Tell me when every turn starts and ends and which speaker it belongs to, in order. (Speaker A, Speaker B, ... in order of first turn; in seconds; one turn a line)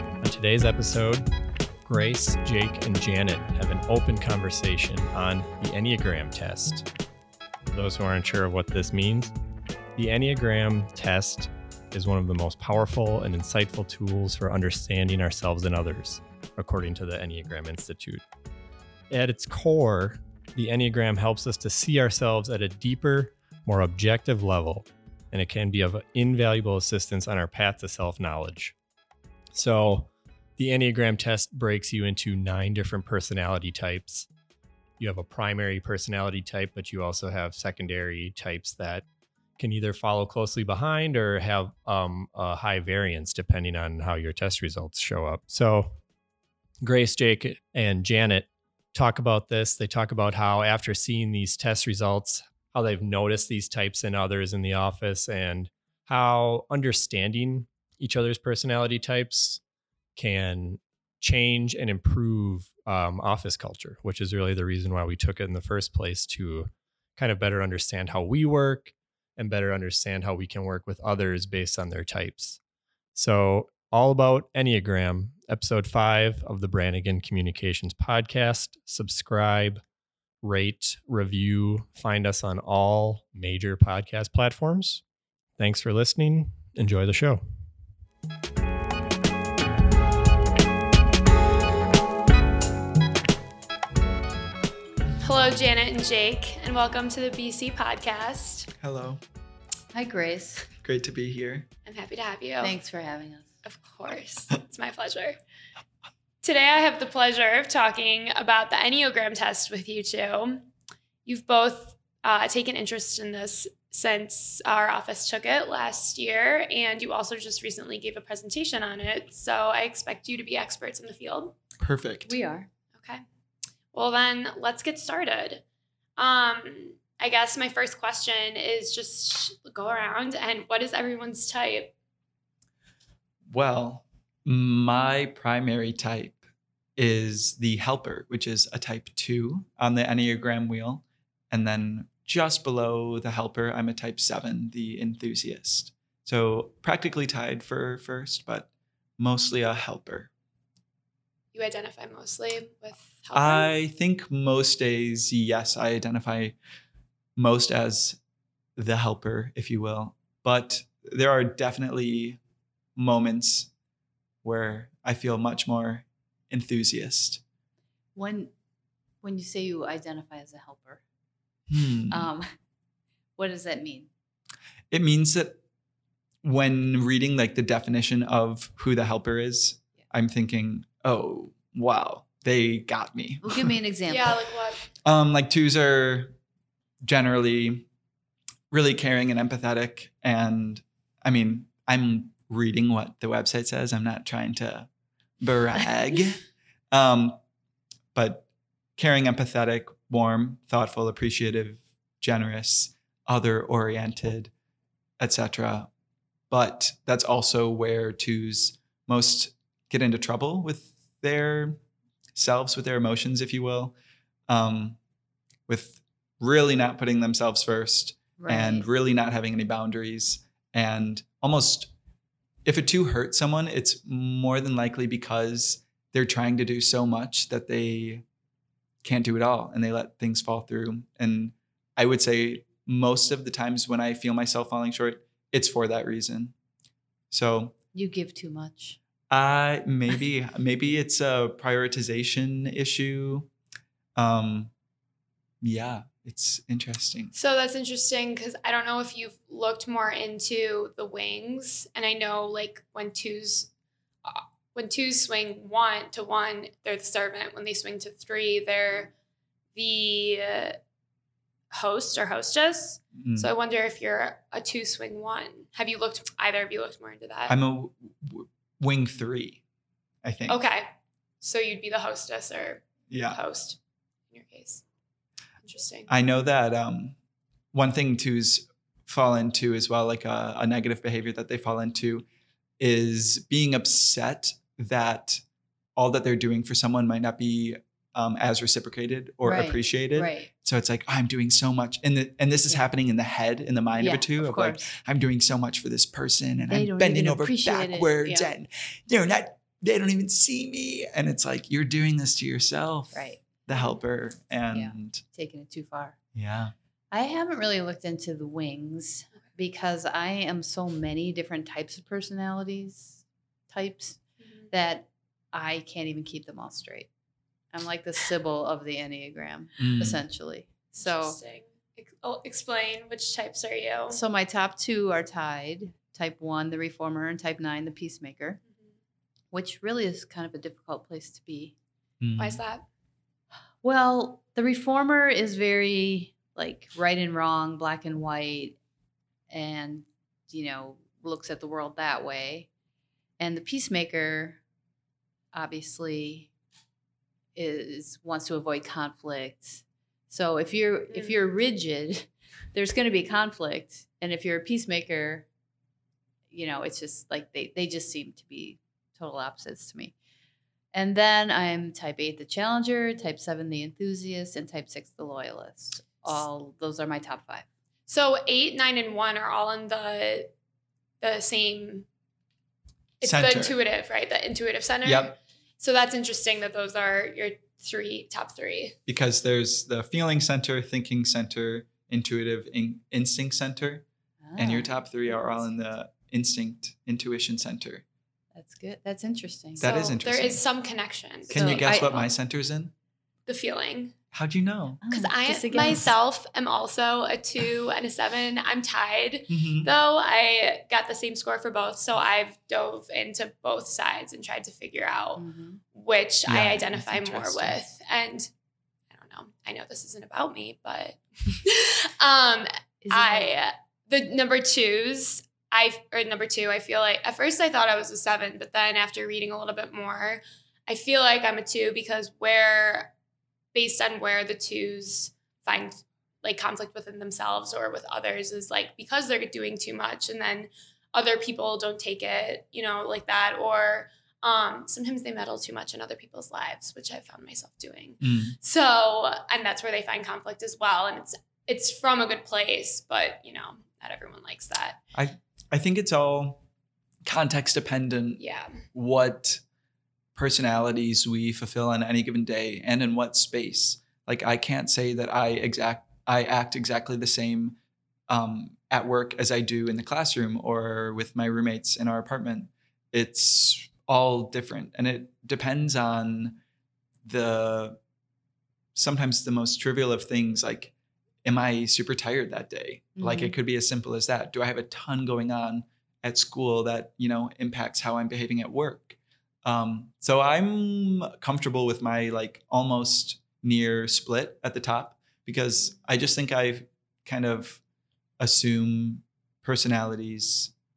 Speaker A: 0.2-1.2
Speaker A: 1.8-6.8
Speaker A: 7.7-9.3
Speaker A: 9.9-18.2
Speaker A: 19.1-28.7
Speaker A: 29.5-34.3
Speaker A: 35.0-39.0
Speaker A: 39.6-46.0
Speaker A: 46.8-59.6
Speaker A: 60.1-72.6
Speaker A: 73.1-79.8
Speaker A: 80.4-85.0
Speaker A: 85.6-87.4
Speaker B: 95.2-98.7
Speaker C: 98.8-99.2
Speaker D: 99.9-100.7
Speaker C: 100.8-101.7
Speaker B: 101.8-102.8
Speaker D: 102.6-103.5
Speaker B: 103.6-105.4
Speaker B: 106.4-110.7
Speaker B: 111.2-121.5
Speaker C: 121.8-122.3
Speaker D: 122.3-122.7
Speaker B: 122.9-123.2
Speaker B: 123.9-125.6
Speaker B: 126.2-131.9
Speaker C: 133.5-136.4
Speaker C: 137.0-150.3
Speaker B: 151.5-153.7
Speaker C: 153.3-156.5
Speaker C: 157.3-158.2
Speaker C: 158.8-162.4
Speaker C: 162.9-163.7
Speaker C: 164.4-167.4
Speaker D: 168.1-168.5
Speaker D: 169.2-171.0
Speaker C: 171.7-172.3
Speaker D: 172.1-172.5
Speaker D: 173.4-174.1
Speaker C: 174.9-175.6
Speaker C: 176.4-183.7
Speaker D: 183.4-184.4
Speaker B: 184.1-184.9
Speaker C: 185.0-186.3
Speaker C: 187.0-187.8
Speaker C: 188.7-194.9
Speaker C: 195.4-197.4
Speaker C: 198.1-204.5
Speaker C: 205.2-205.9
Speaker C: 206.5-211.8
Speaker C: 212.3-213.9
Speaker C: 214.5-215.0
Speaker C: 215.7-221.9
Speaker D: 218.4-218.9
Speaker C: 222.6-228.2
Speaker C: 229.0-236.5
Speaker C: 237.3-237.8
Speaker D: 237.9-239.0
Speaker C: 239.3-243.5
Speaker C: 244.2-244.7
Speaker C: 245.6-247.3
Speaker B: 247.3-253.7
Speaker B: 254.2-259.1
Speaker B: 259.7-260.8
Speaker B: 261.7-267.6
Speaker C: 263.1-263.5
Speaker C: 267.5-269.6
Speaker C: 270.2-270.6
Speaker B: 270.5-270.9
Speaker B: 271.4-273.8
Speaker C: 273.1-273.4
Speaker B: 274.3-274.8
Speaker B: 275.6-276.1
Speaker C: 276.1-277.1
Speaker C: 277.7-282.2
Speaker C: 282.8-285.4
Speaker C: 285.9-305.2
Speaker D: 289.4-290.5
Speaker D: 294.0-294.9
Speaker D: 296.7-298.5
Speaker D: 303.1-303.4
Speaker D: 304.7-306.2
Speaker C: 306.3-306.7
Speaker D: 307.1-317.1
Speaker B: 314.4-314.7
Speaker D: 317.7-321.4
Speaker C: 319.8-320.2
Speaker B: 321.0-324.2
Speaker D: 324.1-328.6
Speaker D: 329.5-331.8
Speaker C: 332.2-332.6
Speaker B: 332.4-332.8
Speaker D: 333.8-338.8
Speaker D: 339.5-342.7
Speaker D: 343.4-344.6
Speaker D: 345.5-346.5
Speaker D: 347.5-355.5
Speaker B: 351.1-351.4
Speaker D: 356.5-360.1
Speaker D: 360.9-367.6
Speaker B: 368.1-370.5
Speaker B: 371.2-372.1
Speaker B: 373.2-378.9
Speaker C: 373.2-373.8
Speaker C: 375.0-375.3
Speaker C: 379.1-384.0
Speaker D: 384.4-385.6
Speaker C: 384.6-388.0
Speaker D: 388.5-390.2
Speaker C: 389.8-390.6
Speaker B: 390.1-392.3
Speaker C: 391.5-392.9
Speaker D: 391.5-392.2
Speaker B: 393.4-394.1
Speaker C: 394.3-395.0
Speaker D: 395.0-396.1
Speaker B: 395.1-405.4
Speaker C: 399.5-399.9
Speaker D: 405.4-405.8
Speaker B: 405.9-408.5
Speaker C: 406.5-407.8
Speaker B: 409.1-423.1
Speaker D: 413.0-413.5
Speaker B: 423.7-445.0
Speaker C: 438.2-438.6
Speaker C: 445.1-446.6
Speaker C: 447.2-448.4
Speaker B: 448.4-448.8
Speaker C: 448.9-449.6
Speaker C: 450.3-457.8
Speaker C: 458.3-466.6
Speaker C: 467.2-468.0
Speaker C: 468.9-470.9
Speaker C: 471.4-487.8
Speaker D: 473.2-473.5
Speaker C: 488.4-490.7